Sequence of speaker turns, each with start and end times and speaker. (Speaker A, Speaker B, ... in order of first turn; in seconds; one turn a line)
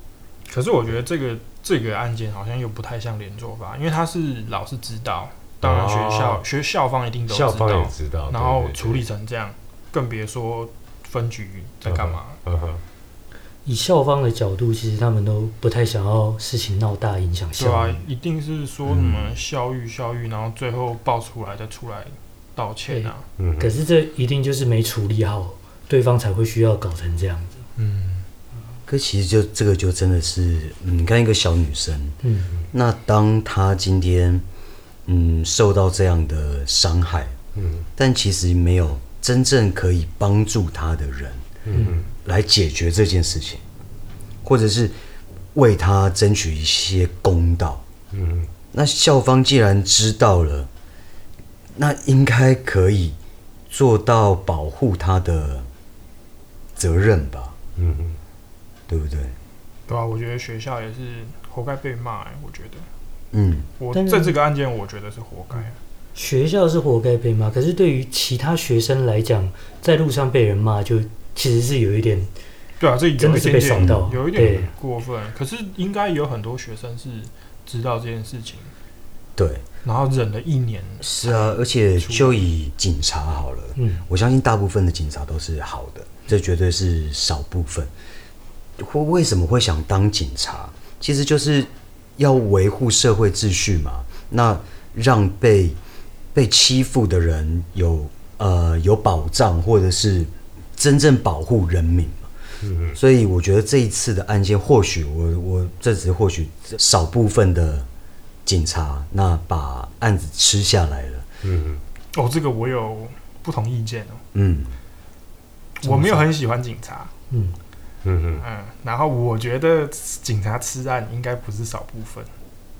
Speaker A: 0.5-12.4
Speaker B: 5.6-6.4
Speaker B: 7.3-9.0
Speaker B: 11.8-12.8
Speaker C: 13.6-18.0
Speaker A: 17.6-23.2
Speaker B: 18.9-19.2
Speaker C: 22.9-27.6
Speaker B: 23.4-23.7
Speaker A: 27.8-28.2
Speaker D: 28.9-32.2
Speaker C: 32.2-32.5
Speaker D: 32.7-34.4
Speaker D: 35.0-37.4
Speaker B: 37.5-37.9
Speaker D: 38.0-41.4
Speaker B: 41.7-42.0
Speaker C: 41.7-42.0
Speaker D: 42.2-43.6
Speaker D: 44.4-44.9
Speaker D: 45.5-47.8
Speaker B: 48.1-48.5
Speaker D: 48.7-50.7
Speaker D: 51.8-53.2
Speaker D: 53.7-55.7
Speaker D: 56.8-57.5
Speaker B: 57.8-58.2
Speaker D: 58.9-59.4
Speaker A: 59.9-62.9
Speaker D: 63.3-63.7
Speaker A: 63.8-65.8
Speaker C: 63.9-64.4
Speaker C: 66.2-72.3
Speaker A: 72.8-78.7
Speaker C: 73.2-74.7
Speaker D: 79.3-79.6
Speaker A: 79.8-82.4
Speaker D: 81.0-87.9
Speaker C: 83.8-84.0
Speaker D: 88.8-95.8
Speaker D: 96.3-102.3
Speaker B: 102.6-103.0
Speaker D: 102.9-107.8
Speaker D: 108.5-111.2
Speaker B: 111.4-111.8
Speaker A: 112.1-114.2
Speaker D: 114.3-114.7
Speaker A: 115.8-117.1
Speaker C: 115.8-116.3
Speaker C: 117.3-117.5
Speaker B: 118.0-118.4
Speaker A: 118.4-122.3